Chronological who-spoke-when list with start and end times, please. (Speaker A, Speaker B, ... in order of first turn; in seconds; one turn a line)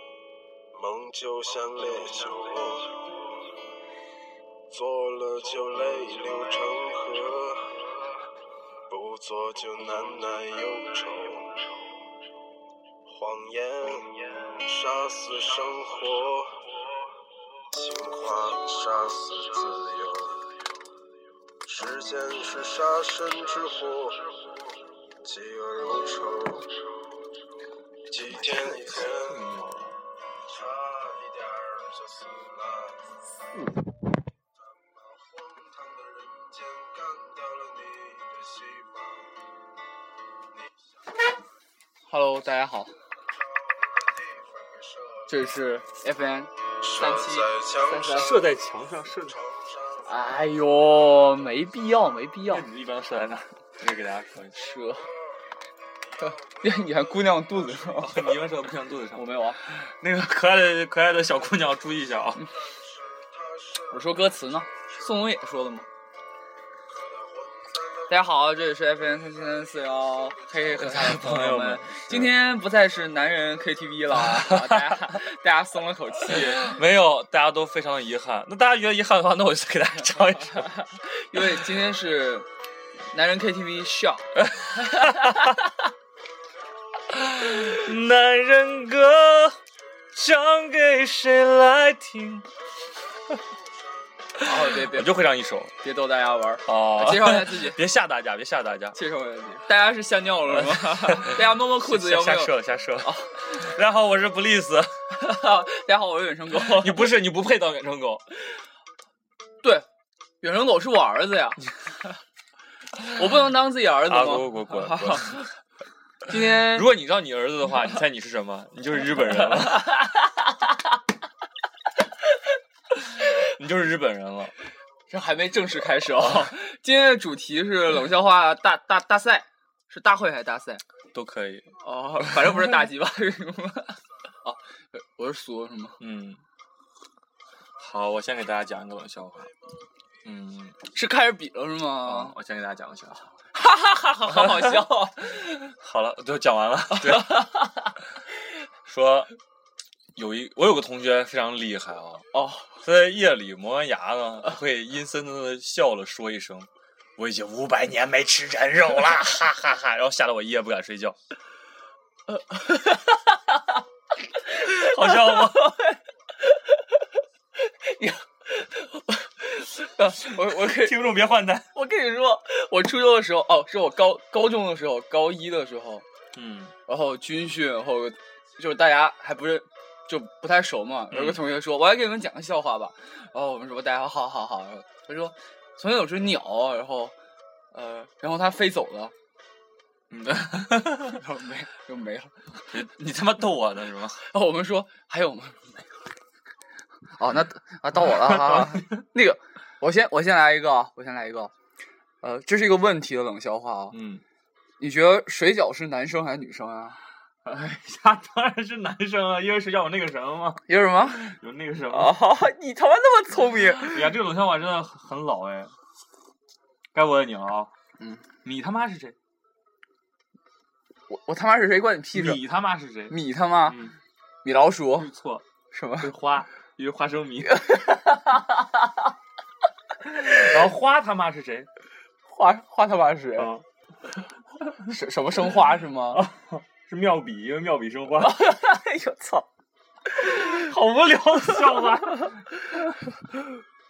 Speaker A: 0.7-3.4
Speaker A: 4.7-8.2
Speaker A: 8.9-11.9
Speaker A: 13.1-16.8
Speaker A: 17.7-20.5
Speaker A: 21.6-24.5
Speaker A: 25.2-26.8
Speaker A: 28.1-29.4
Speaker B: 28.2-28.9
Speaker C: 28.5-30.0
Speaker A: 30.4-33.0
Speaker A: 34.9-39.3
Speaker B: 42.1-43.0
Speaker A: 44.0-45.3
Speaker B: 45.3-48.3
Speaker A: 46.8-48.4
Speaker C: 48.1-49.4
Speaker A: 49.4-50.1
Speaker B: 50.0-52.7
Speaker C: 52.5-54.6
Speaker B: 54.5-55.1
Speaker A: 56.2-57.5
Speaker B: 56.2-58.3
Speaker C: 57.8-62.5
Speaker B: 59.1-59.6
Speaker A: 62.6-64.0
Speaker B: 63.9-65.9
Speaker A: 66.9-68.1
Speaker B: 68.1-76.8
Speaker C: 70.7-72.3
Speaker C: 74.2-75.2
Speaker C: 76.2-80.8
Speaker B: 80.3-82.5
Speaker B: 83.1-84.3
Speaker C: 84.4-85.6
Speaker B: 85.0-85.5
Speaker C: 87.1-89.6
Speaker C: 90.1-92.5
Speaker C: 94.4-95.7
Speaker B: 94.4-95.1
Speaker B: 95.8-97.8
Speaker C: 96.7-99.0
Speaker B: 99.0-103.5
Speaker C: 100.5-104.9
Speaker B: 105.2-107.1
Speaker C: 106.5-108.3
Speaker B: 110.4-111.7
Speaker B: 113.1-115.4
Speaker C: 114.0-115.5
Speaker B: 116.3-116.9
Speaker C: 116.3-120.0
Speaker B: 119.5-120.6
Speaker C: 122.9-124.5
Speaker B: 125.1-130.8
Speaker C: 126.2-126.5
Speaker C: 131.1-131.7
Speaker B: 131.8-136.0
Speaker C: 132.2-132.6
Speaker C: 136.0-136.4
Speaker C: 137.8-139.5
Speaker C: 140.2-140.8
Speaker B: 140.9-142.3
Speaker C: 142.0-143.3
Speaker B: 143.6-145.7
Speaker C: 144.3-144.9
Speaker C: 145.7-147.5
Speaker B: 147.0-147.9
Speaker C: 148.8-149.3
Speaker C: 150.2-152.2
Speaker B: 152.3-152.8
Speaker C: 152.8-161.2
Speaker B: 162.3-163.6
Speaker C: 164.5-165.8
Speaker B: 164.6-166.0
Speaker B: 167.6-171.1
Speaker C: 170.4-171.7
Speaker B: 171.7-176.1
Speaker C: 176.3-176.7
Speaker B: 176.9-187.2
Speaker C: 181.1-181.4
Speaker B: 187.7-189.1
Speaker C: 190.1-191.2
Speaker B: 191.1-192.4
Speaker C: 192.7-194.2
Speaker B: 194.2-195.9
Speaker B: 197.2-201.5
Speaker C: 198.1-198.8
Speaker B: 202.2-204.0
Speaker C: 203.9-204.2
Speaker B: 204.8-207.0
Speaker C: 207.4-212.2
Speaker B: 210.7-211.3
Speaker B: 211.9-214.2
Speaker C: 213.8-215.7
Speaker C: 216.9-217.7
Speaker C: 218.4-219.2
Speaker B: 221.1-222.4
Speaker C: 222.1-224.0
Speaker B: 223.1-223.8
Speaker B: 224.4-225.1
Speaker C: 225.0-225.4
Speaker B: 225.7-226.1
Speaker C: 226.0-227.7
Speaker B: 227.5-228.9
Speaker C: 230.1-231.7
Speaker B: 232.3-233.6
Speaker C: 233.4-233.6
Speaker B: 234.8-236.3
Speaker C: 236.1-238.4
Speaker B: 238.2-239.5
Speaker B: 240.2-240.6
Speaker C: 240.2-242.5